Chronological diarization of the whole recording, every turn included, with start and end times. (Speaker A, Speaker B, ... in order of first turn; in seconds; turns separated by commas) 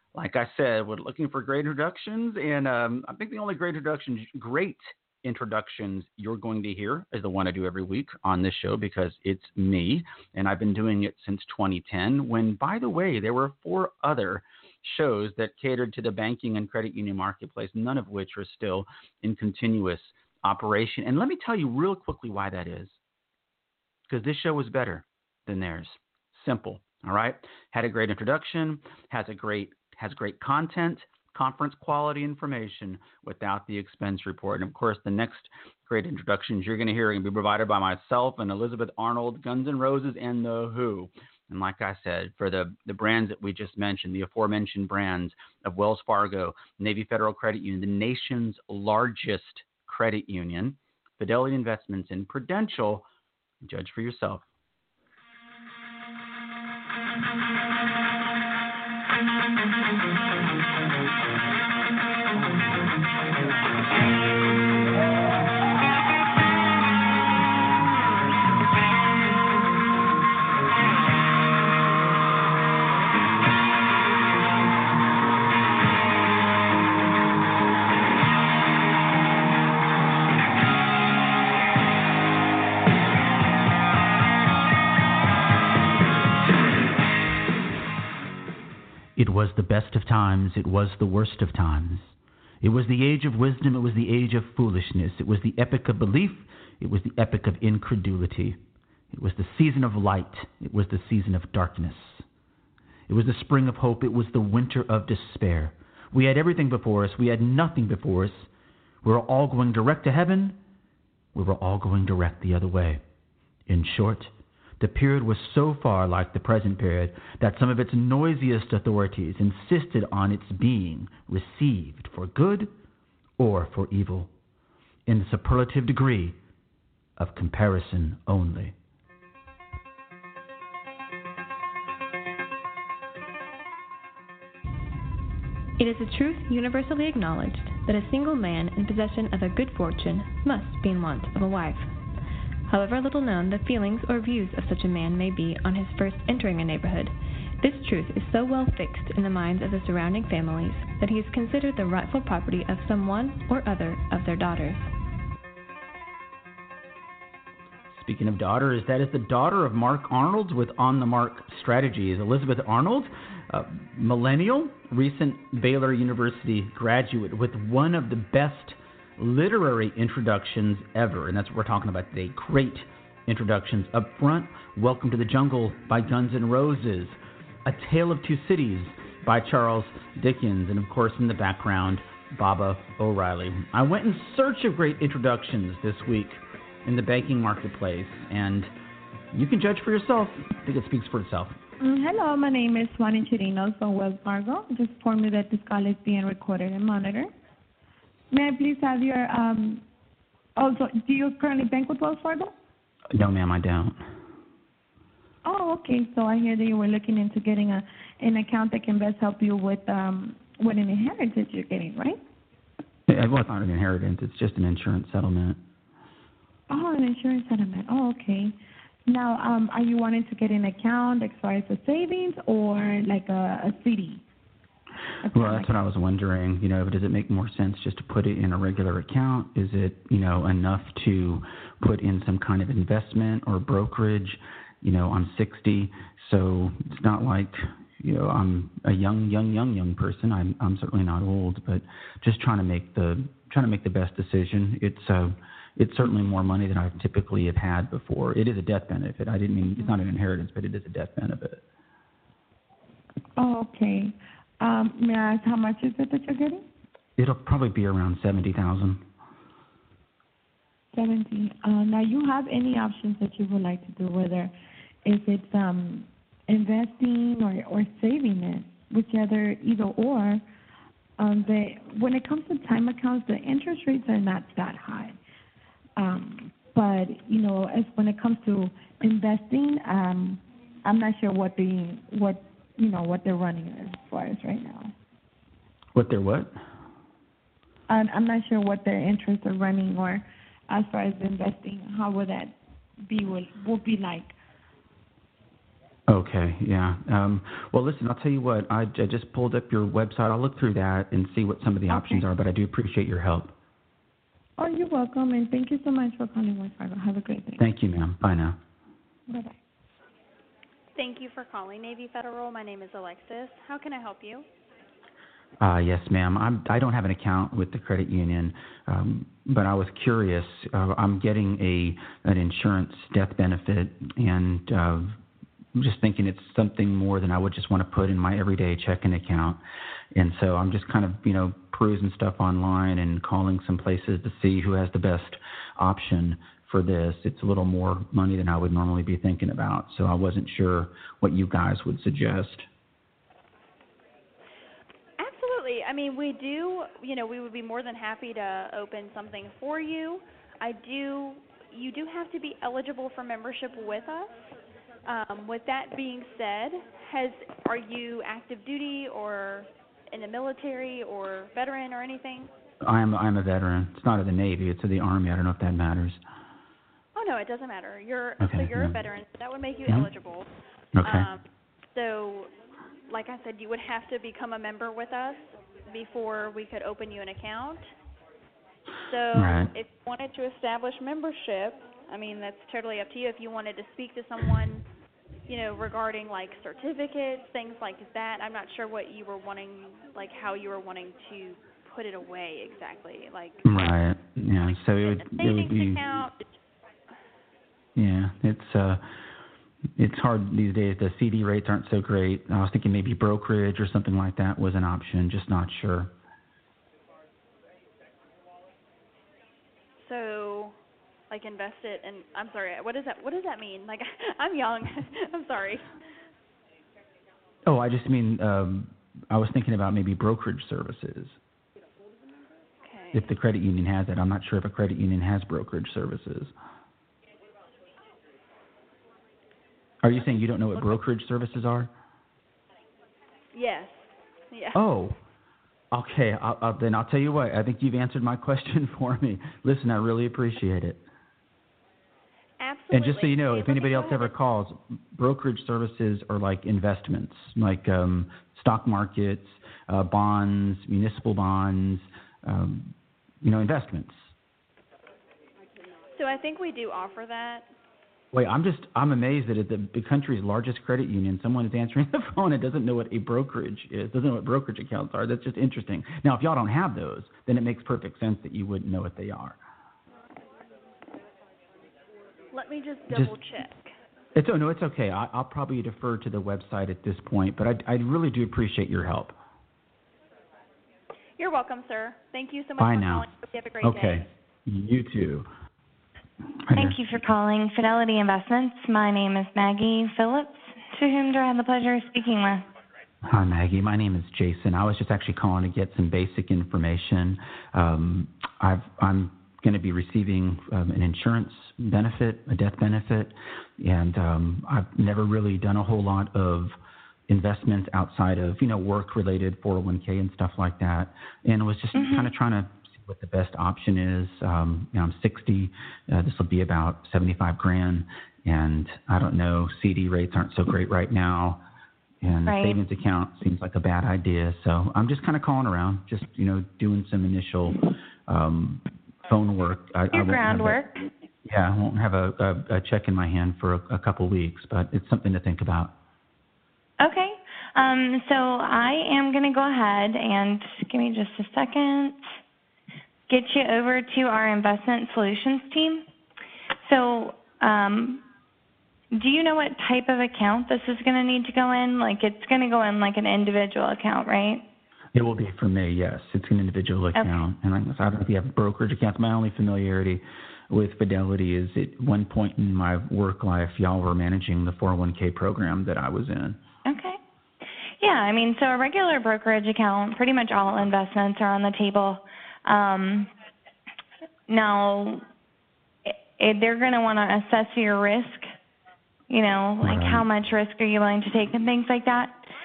Speaker A: 0.1-23.0, Speaker A: 24.1-53.1, Speaker A: 53.6-54.5, Speaker A: 89.2-98.6, Speaker A: 99.1-102.2, Speaker A: 103.1-108.5, Speaker A: 109.0-110.6, Speaker A: 111.3-113.0, Speaker A: 113.7-122.7, Speaker A: 123.4-124.3, Speaker A: 125.1-126.4, Speaker A: 127.2-128.8, Speaker B: 135.8-141.9, Speaker B: 142.7-154.9, Speaker A: 157.9-188.7, Speaker A: 189.3-191.6, Speaker C: 191.8-197.3, Speaker C: 198.3-199.8, Speaker C: 200.6-202.5, Speaker A: 203.1-204.0, Speaker C: 205.4-212.2, Speaker A: 213.1-215.6, Speaker C: 216.7-218.5, Speaker C: 219.1-224.2, Speaker C: 225.2-225.7, Speaker A: 225.3-251.6, Speaker C: 253.4-256.6, Speaker A: 257.2-259.0, Speaker C: 260.9-264.5, Speaker C: 265.1-270.4, Speaker C: 271.2-275.2, Speaker C: 276.0-284.9, Speaker A: 285.9-286.5, Speaker C: 287.9-292.5, Speaker C: 293.1-294.3, Speaker A: 296.1-303.6, Speaker C: 301.9-302.2, Speaker C: 304.6-307.6, Speaker A: 307.6-308.6, Speaker C: 309.3-309.6, Speaker D: 311.0-314.5, Speaker A: 315.6-325.2, Speaker A: 325.8-329.6, Speaker A: 330.1-342.7, Speaker D: 345.2-354.3, Speaker D: 355.1-362.5, Speaker A: 362.8-366.2, Speaker D: 367.1-370.5, Speaker A: 368.4-369.0, Speaker A: 370.9-371.3, Speaker D: 371.0-371.4, Speaker D: 371.9-372.5, Speaker D: 373.1-377.9, Speaker D: 379.0-384.9, Speaker A: 379.3-379.7, Speaker D: 385.5-393.9, Speaker A: 393.6-396.0, Speaker D: 395.0-396.6, Speaker A: 398.0-399.0, Speaker A: 400.0-406.1, Speaker D: 410.0-410.8, Speaker D: 411.3-415.9, Speaker A: 417.6-421.4, Speaker D: 422.8-423.3, Speaker A: 423.1-426.5, Speaker A: 430.0-431.9, Speaker D: 433.5-433.9, Speaker D: 434.5-434.8, Speaker A: 434.7-435.2, Speaker A: 435.9-441.0, Speaker D: 442.6-444.3, Speaker A: 442.9-454.3, Speaker D: 456.1-457.7, Speaker A: 458.3-469.6, Speaker D: 472.5-473.9, Speaker A: 474.4-479.4, Speaker D: 481.4-484.3, Speaker A: 482.8-483.3, Speaker A: 483.8-485.5, Speaker A: 486.6-487.0, Speaker E: 486.7-492.6, Speaker A: 493.3-506.8, Speaker A: 507.3-521.6, Speaker E: 511.9-512.3, Speaker A: 522.2-530.8, Speaker E: 522.5-522.8, Speaker E: 530.1-531.0, Speaker A: 531.5-535.9, Speaker E: 537.0-542.2, Speaker E: 543.3-546.0, Speaker E: 546.8-548.2, Speaker E: 549.1-554.6, Speaker A: 555.1-566.6, Speaker E: 566.9-567.2, Speaker E: 568.0-573.3, Speaker E: 574.5-575.2, Speaker E: 576.1-578.5, Speaker E: 579.3-582.4, Speaker A: 579.8-580.3